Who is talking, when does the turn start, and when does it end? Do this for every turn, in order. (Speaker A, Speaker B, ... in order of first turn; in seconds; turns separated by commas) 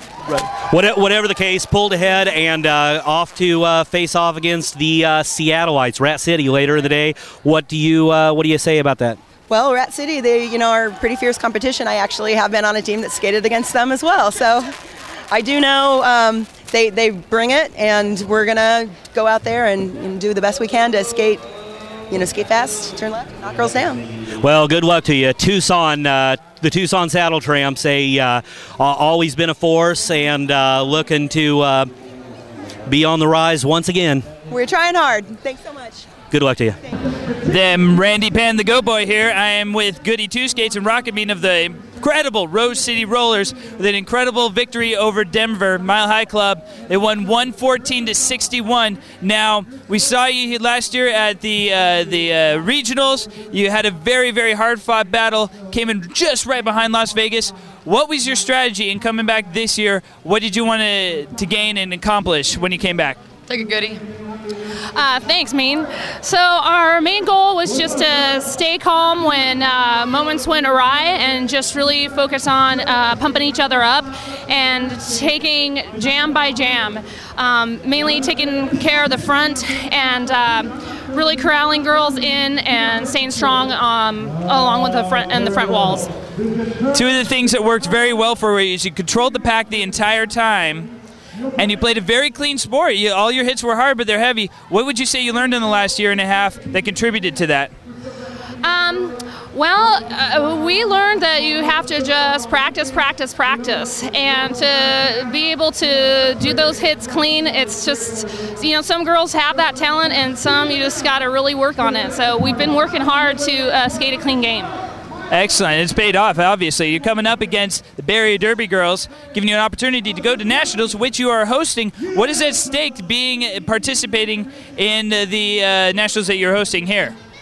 Speaker A: 0.3-9.2, Speaker B: 9.5-14.7, Speaker B: 15.3-21.4, Speaker B: 22.1-24.0, Speaker A: 24.4-31.9, Speaker A: 32.9-34.3, Speaker B: 34.5-36.1, Speaker A: 36.3-36.8, Speaker C: 37.5-63.2, Speaker D: 64.9-86.1, Speaker C: 86.9-90.9, Speaker C: 91.6-97.7, Speaker D: 98.6-114.7, Speaker C: 115.3-127.2